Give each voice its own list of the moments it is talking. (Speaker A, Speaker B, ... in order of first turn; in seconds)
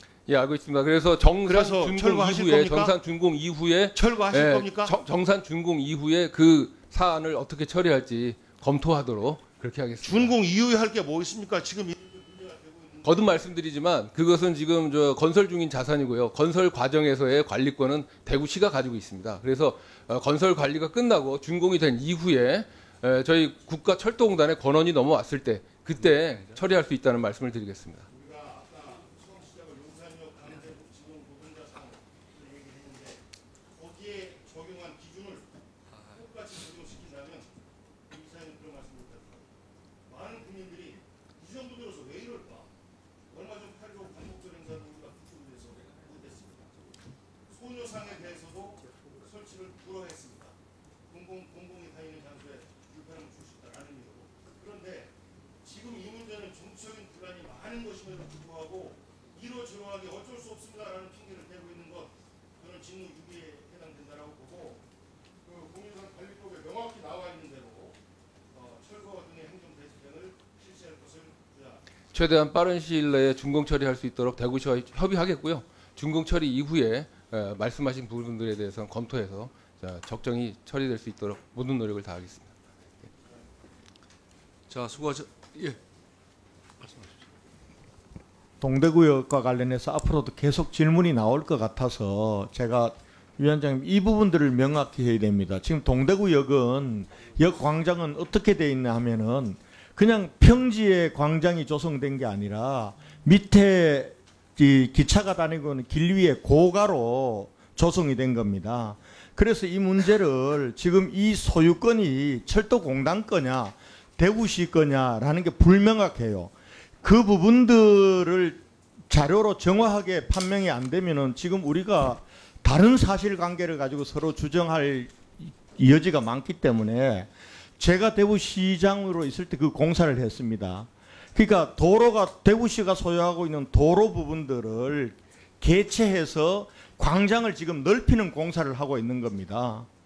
Speaker A: 0.3-10.3, 13.0-28.1, 72.1-82.5
Speaker B: 1.5-2.9, 3.9-5.0, 10.0-13.5, 28.1-35.5, 36.1-37.5, 38.1-39.5, 40.1-42.7, 43.3-46.8, 47.5-50.5, 51.1-64.8, 65.4-68.0, 68.5-71.8
Speaker C: 26.0-26.6, 84.7-85.8, 86.8-87.1
Speaker D: 88.6-139.9